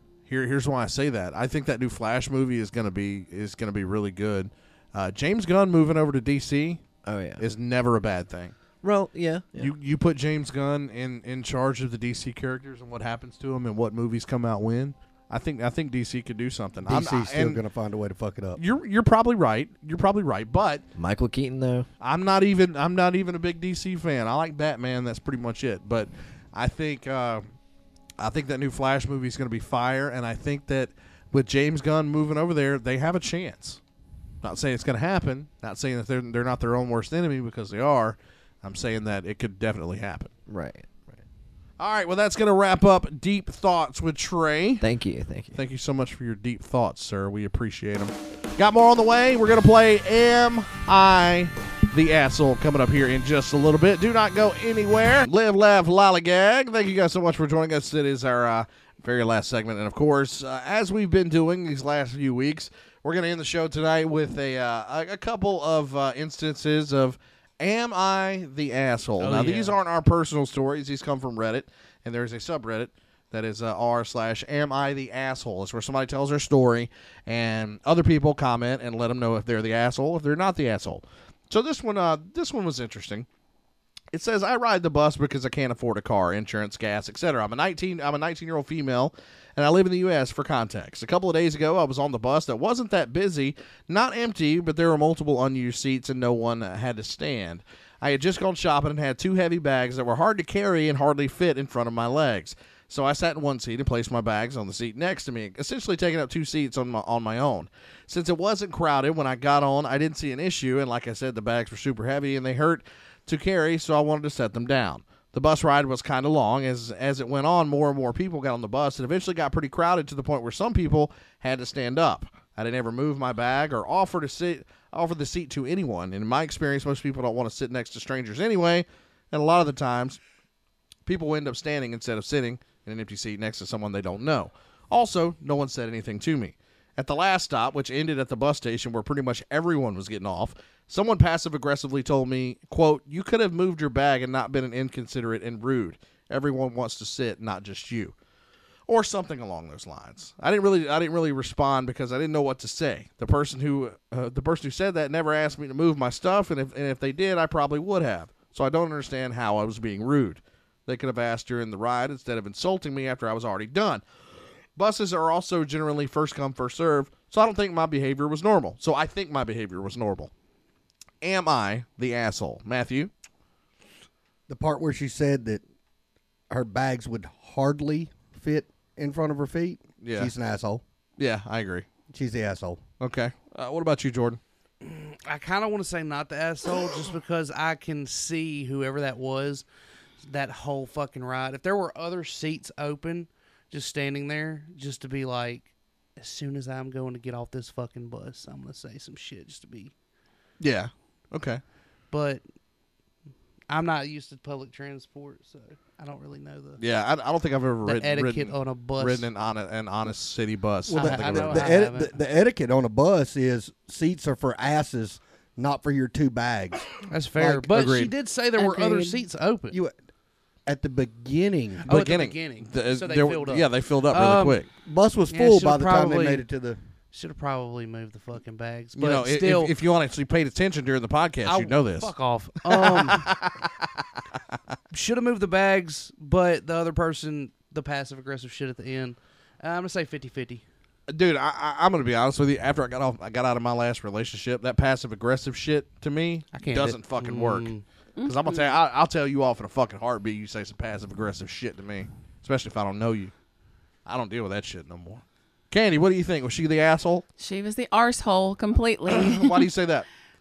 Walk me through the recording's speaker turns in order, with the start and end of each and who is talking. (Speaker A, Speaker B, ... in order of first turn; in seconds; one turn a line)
Speaker A: 0.3-6.8
Speaker B: 7.0-7.5
Speaker A: 7.4-8.6
Speaker B: 8.8-9.7
Speaker A: 9.6-17.6
Speaker C: 16.9-18.6
Speaker A: 18.6-20.8
Speaker B: 21.0-21.9
Speaker A: 22.0-27.4
Speaker A: 28.2-33.8
Speaker A: 34.4-40.3
Speaker B: 40.5-41.2
Speaker A: 41.8-44.9
Speaker B: 44.8-45.6
Speaker A: 45.5-83.3
Speaker D: 69.2-69.8
Speaker A: 84.1-130.2
Speaker A: 131.1-148.1
Speaker A: 148.9-164.0
Speaker A: 164.8-170.3
Speaker A: 171.2-173.1
Speaker C: 174.5-175.6
Speaker C: 176.5-180.8
Speaker A: 180.0-180.3
Speaker A: 181.2-181.9
Speaker C: 182.1-182.8
Speaker A: 183.0-184.4
Speaker D: 184.8-189.7
Speaker D: 190.2-199.9
Speaker A: 200.6-201.6
Speaker D: 202.1-202.4
Speaker D: 203.7-206.8
Speaker A: 206.8-211.7
Speaker D: 207.8-209.3
Speaker C: 210.9-217.7
Speaker D: 210.9-212.2
Speaker D: 217.1-219.8
Speaker A: 217.5-218.1
Speaker E: 218.6-219.2
Speaker C: 219.7-220.0
Speaker C: 220.7-221.9
Speaker D: 221.8-224.6
Speaker A: 221.9-224.7
Speaker C: 224.8-226.8
Speaker D: 225.3-226.4
Speaker D: 227.1-229.7
Speaker A: 229.0-234.1
Speaker D: 231.4-233.3
Speaker D: 234.9-240.6
Speaker A: 241.1-247.7
Speaker D: 246.5-247.8
Speaker E: 248.2-248.6
Speaker A: 248.2-253.3
Speaker A: 254.1-257.2
Speaker E: 257.4-259.7
Speaker A: 259.1-260.1